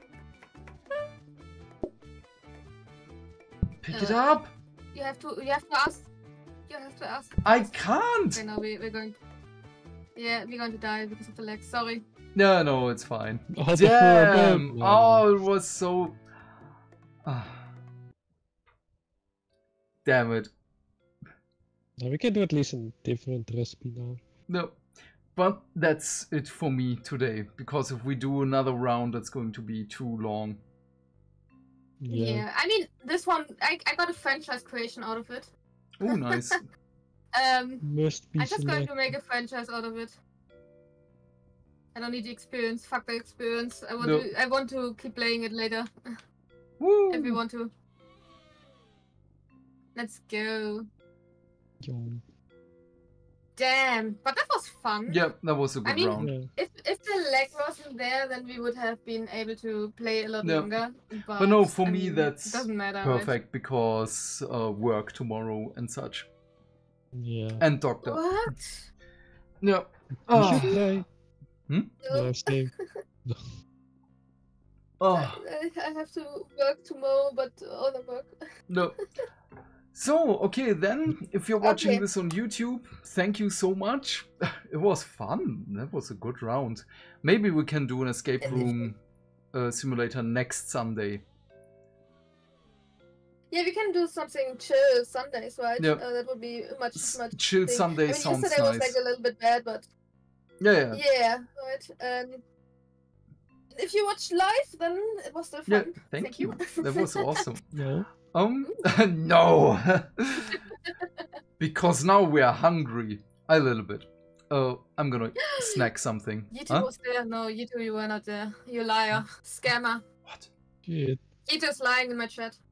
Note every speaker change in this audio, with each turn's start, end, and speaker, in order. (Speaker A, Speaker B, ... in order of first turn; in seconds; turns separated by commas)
Speaker A: 3.8-4.5, Speaker B: 3.9-4.4, Speaker B: 4.9-6.0, Speaker B: 6.7-7.8, Speaker A: 7.4-8.4, Speaker B: 8.3-9.1, Speaker B: 10.2-12.0, Speaker A: 12.3-16.2, Speaker C: 13.5-15.3, Speaker A: 17.2-17.7, Speaker A: 20.0-20.5, Speaker C: 22.0-24.2, Speaker A: 24.5-24.8, Speaker A: 25.3-30.6, Speaker C: 32.0-32.5, Speaker B: 32.1-35.5, Speaker A: 36.0-36.6, Speaker B: 36.1-36.5, Speaker B: 37.3-37.9, Speaker C: 37.8-39.1, Speaker B: 38.4-40.2, Speaker B: 41.9-46.1, Speaker A: 44.0-44.3, Speaker A: 46.8-47.4, Speaker B: 47.1-47.7, Speaker B: 49.9-50.9, Speaker C: 51.8-52.2, Speaker B: 53.5-55.2, Speaker A: 55.1-56.3, Speaker B: 55.8-63.3, Speaker C: 56.2-56.5, Speaker A: 60.4-60.7, Speaker A: 61.4-66.3, Speaker C: 67.1-67.6, Speaker A: 67.6-68.3, Speaker B: 68.0-68.9, Speaker A: 69.6-70.8, Speaker C: 70.3-71.1, Speaker A: 71.7-71.9, Speaker B: 72.0-72.9, Speaker C: 72.1-72.7, Speaker A: 75.0-75.4, Speaker B: 75.1-78.4, Speaker A: 78.7-79.0, Speaker A: 79.9-89.0, Speaker B: 81.6-82.0, Speaker B: 88.4-88.7, Speaker C: 88.4-88.7, Speaker A: 89.5-91.2, Speaker B: 93.5-99.9, Speaker A: 97.0-99.0, Speaker A: 100.6-101.0, Speaker B: 100.9-102.4, Speaker B: 103.7-107.3, Speaker A: 105.7-107.7, Speaker C: 107.7-108.1, Speaker A: 108.3-110.6, Speaker A: 111.6-116.9, Speaker B: 115.4-115.8, Speaker B: 116.5-120.0, Speaker C: 120.8-121.2, Speaker B: 121.5-122.6